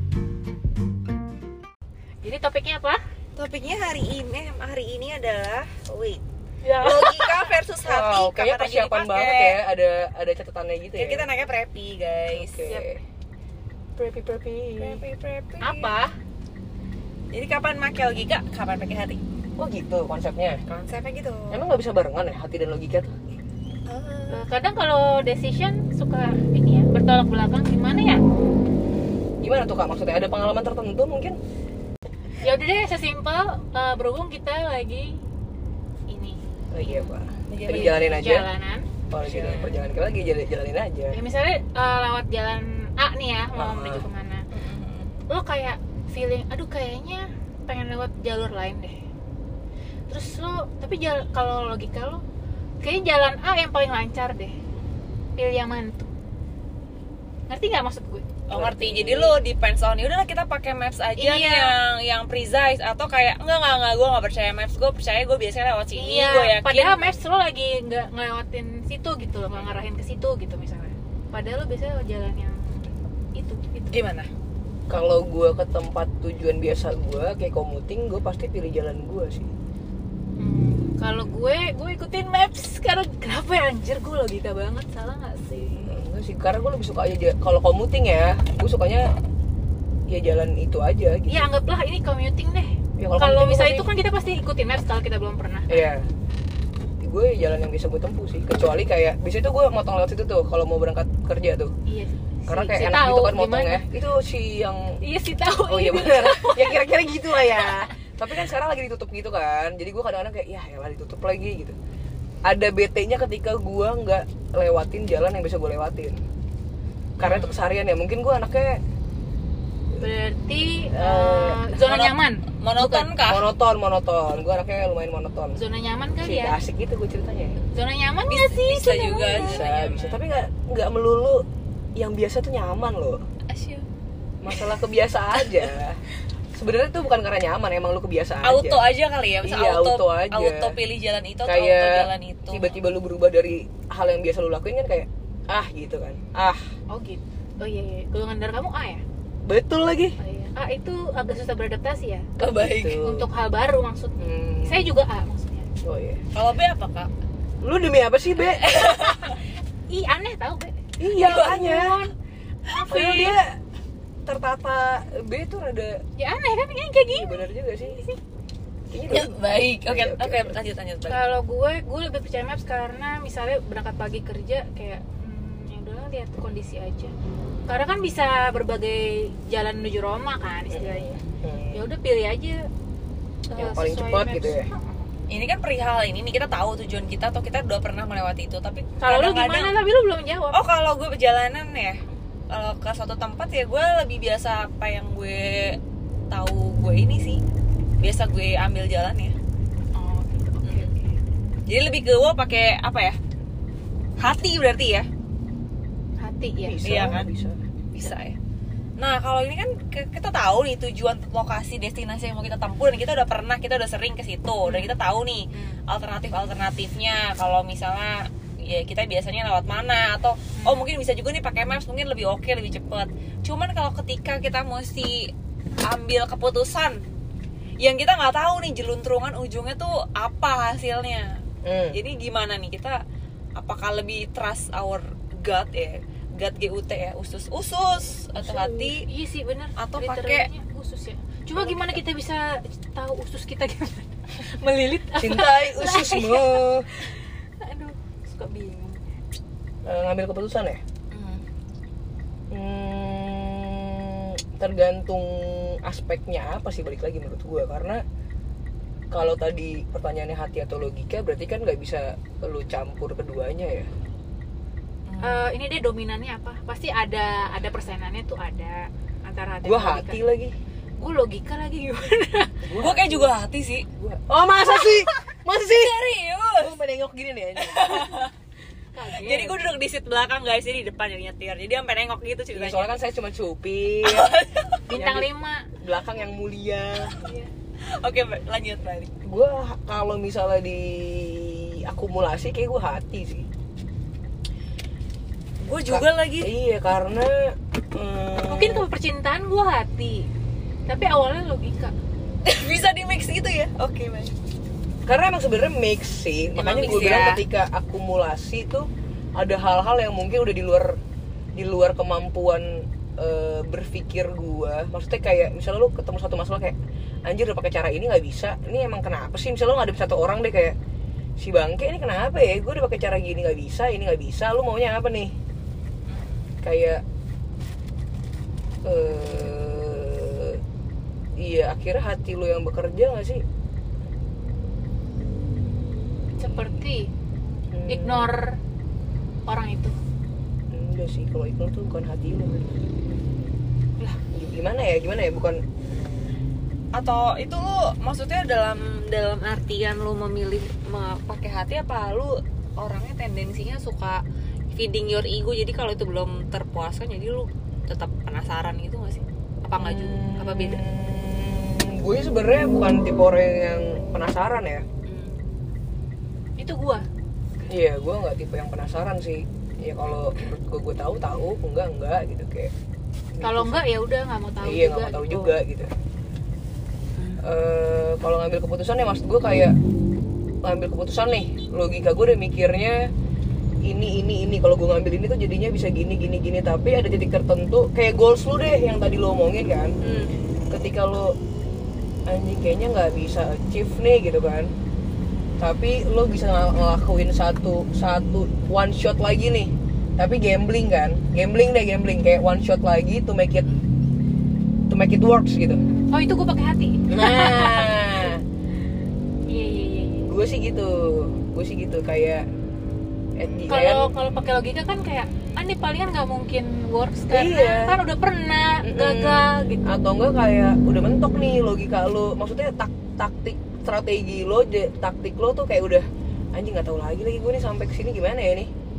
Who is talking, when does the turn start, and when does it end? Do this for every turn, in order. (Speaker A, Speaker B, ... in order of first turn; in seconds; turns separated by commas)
Speaker A: 2.2-3.0, Speaker B: 3.4-6.2, Speaker A: 6.6-7.5, Speaker B: 6.7-9.6, Speaker C: 7.8-11.3, Speaker B: 11.0-12.7, Speaker C: 12.3-13.0, Speaker C: 14.0-15.0, Speaker B: 14.8-15.9, Speaker A: 15.6-16.1, Speaker B: 17.3-19.2, Speaker C: 19.6-20.6, Speaker B: 20.7-21.7, Speaker C: 21.5-23.2, Speaker B: 23.9-24.5, Speaker A: 24.3-28.2, Speaker C: 29.4-31.4, Speaker A: 32.4-35.2, Speaker A: 36.1-37.1, Speaker C: 36.7-38.5, Speaker B: 37.5-38.1, Speaker A: 37.7-38.9, Speaker C: 39.1-41.2, Speaker B: 39.2-39.8, Speaker A: 41.1-44.5, Speaker C: 43.5-44.1, Speaker B: 44.5-45.1, Speaker A: 45.3-49.0, Speaker A: 50.1-52.2, Speaker A: 52.8-54.6, Speaker A: 55.4-56.1, Speaker A: 57.5-58.4, Speaker B: 58.5-67.2, Speaker C: 58.5-59.4, Speaker A: 61.2-61.8, Speaker A: 65.9-74.0, Speaker B: 69.5-69.8, Speaker B: 73.9-74.3, Speaker C: 74.9-79.5, Speaker A: 80.4-85.8, Speaker C: 85.7-89.1, Speaker C: 90.1-91.5, Speaker A: 91.3-95.9, Speaker C: 93.0-93.9, Speaker C: 95.7-96.1, Speaker C: 97.0-101.7, Speaker A: 101.9-103.8, Speaker C: 102.5-105.0, Speaker A: 105.0-106.8, Speaker C: 105.7-111.8, Speaker A: 107.5-107.8, Speaker C: 112.5-116.2, Speaker C: 117.2-118.8, Speaker B: 117.2-117.6, Speaker A: 120.0-123.1, Speaker C: 120.9-121.7, Speaker B: 121.7-123.5, Speaker C: 123.3-125.6, Speaker A: 125.5-126.6, Speaker C: 126.2-127.6, Speaker A: 127.7-129.7, Speaker B: 128.3-130.2, Speaker C: 129.4-131.4, Speaker C: 132.0-133.2, Speaker B: 133.5-133.9, Speaker C: 134.4-136.0, Speaker B: 135.3-135.7, Speaker C: 136.6-138.9, Speaker B: 138.4-142.8, Speaker C: 139.4-140.8, Speaker C: 141.4-146.7, Speaker A: 146.9-149.0, Speaker C: 149.4-150.2, Speaker A: 150.2-152.3, Speaker C: 152.4-153.3, Speaker B: 152.4-153.0, Speaker A: 153.0-155.7, Speaker C: 154.2-154.9, Speaker C: 155.8-156.2, Speaker B: 156.3-157.1, Speaker C: 157.6-159.2, Speaker B: 158.6-159.4, Speaker A: 159.9-162.1, Speaker C: 161.0-162.1, Speaker A: 162.7-163.4, Speaker C: 162.9-163.6, Speaker C: 164.3-166.0, Speaker A: 166.2-168.2, Speaker C: 167.1-168.0, Speaker C: 168.9-170.6, Speaker B: 169.1-171.3, Speaker A: 171.1-177.1, Speaker A: 177.7-181.1, Speaker C: 180.7-181.9, Speaker A: 181.7-182.6, Speaker A: 183.5-185.1, Speaker C: 183.5-184.7, Speaker B: 185.3-189.8, Speaker A: 189.0-190.6, Speaker B: 190.5-195.8, Speaker B: 196.3-197.4, Speaker B: 198.0-199.3, Speaker A: 199.9-201.2, Speaker B: 201.7-203.2, Speaker B: 204.2-205.1, Speaker A: 206.2-206.9, Speaker C: 206.6-207.6, Speaker B: 206.8-207.3, Speaker B: 207.9-208.4, Speaker B: 209.0-225.3, Speaker A: 214.7-215.0, Speaker A: 215.5-215.8, Speaker A: 220.6-220.9, Speaker B: 225.8-227.0, Speaker B: 227.8-233.0, Speaker C: 231.6-232.0, Speaker B: 233.6-239.1, Speaker C: 238.4-238.9, Speaker A: 239.0-249.0, Speaker B: 239.8-240.5, Speaker B: 241.6-241.9, Speaker C: 245.2-246.9, Speaker C: 249.8-250.8, Speaker B: 251.1-251.4, Speaker C: 252.5-258.0, Speaker C: 259.1-263.9, Speaker B: 265.1-265.5, Speaker A: 265.2-270.2, Speaker C: 269.6-270.6, Speaker A: 271.0-272.8, Speaker C: 272.6-273.3, Speaker B: 272.8-273.9, Speaker C: 274.0-276.0, Speaker B: 275.2-276.8, Speaker C: 276.6-278.2, Speaker B: 277.6-278.3, Speaker A: 278.9-279.6, Speaker B: 279.1-283.0, Speaker C: 282.6-284.3, Speaker B: 284.0-284.9, Speaker A: 284.9-285.7, Speaker C: 284.9-287.2, Speaker A: 287.2-287.5, Speaker B: 287.9-289.1, Speaker C: 289.2-293.5, Speaker B: 295.6-296.5, Speaker C: 295.9-298.9, Speaker A: 298.4-300.3, Speaker A: 300.9-301.9, Speaker B: 302.4-304.3, Speaker C: 305.1-311.0, Speaker B: 306.6-307.5, Speaker C: 311.6-320.8, Speaker C: 321.4-325.4, Speaker B: 326.1-326.5, Speaker C: 326.6-327.0, Speaker C: 328.8-330.6, Speaker C: 331.4-333.4, Speaker A: 336.4-337.1, Speaker C: 337.7-338.3, Speaker A: 337.9-338.6, Speaker A: 339.5-340.0, Speaker C: 340.7-342.8, Speaker C: 344.3-345.6, Speaker B: 346.9-360.8, Speaker C: 359.8-364.9, Speaker B: 365.1-365.4, Speaker A: 366.6-367.1, Speaker C: 367.7-372.7, Speaker C: 373.4-373.8, Speaker A: 373.4-375.6, Speaker C: 374.6-375.9, Speaker B: 377.2-377.4, Speaker C: 377.4-379.8, Speaker C: 380.6-383.1, Speaker C: 383.9-390.0, Speaker B: 390.0-390.3, Speaker C: 390.7-391.4, Speaker C: 392.3-394.7, Speaker C: 395.6-403.8, Speaker C: 404.9-405.8, Speaker A: 406.1-408.3, Speaker C: 407.1-408.4, Speaker A: 409.5-410.3, Speaker C: 410.3-412.5, Speaker C: 413.4-414.1, Speaker A: 413.7-419.8, Speaker C: 417.3-418.0, Speaker C: 418.8-428.7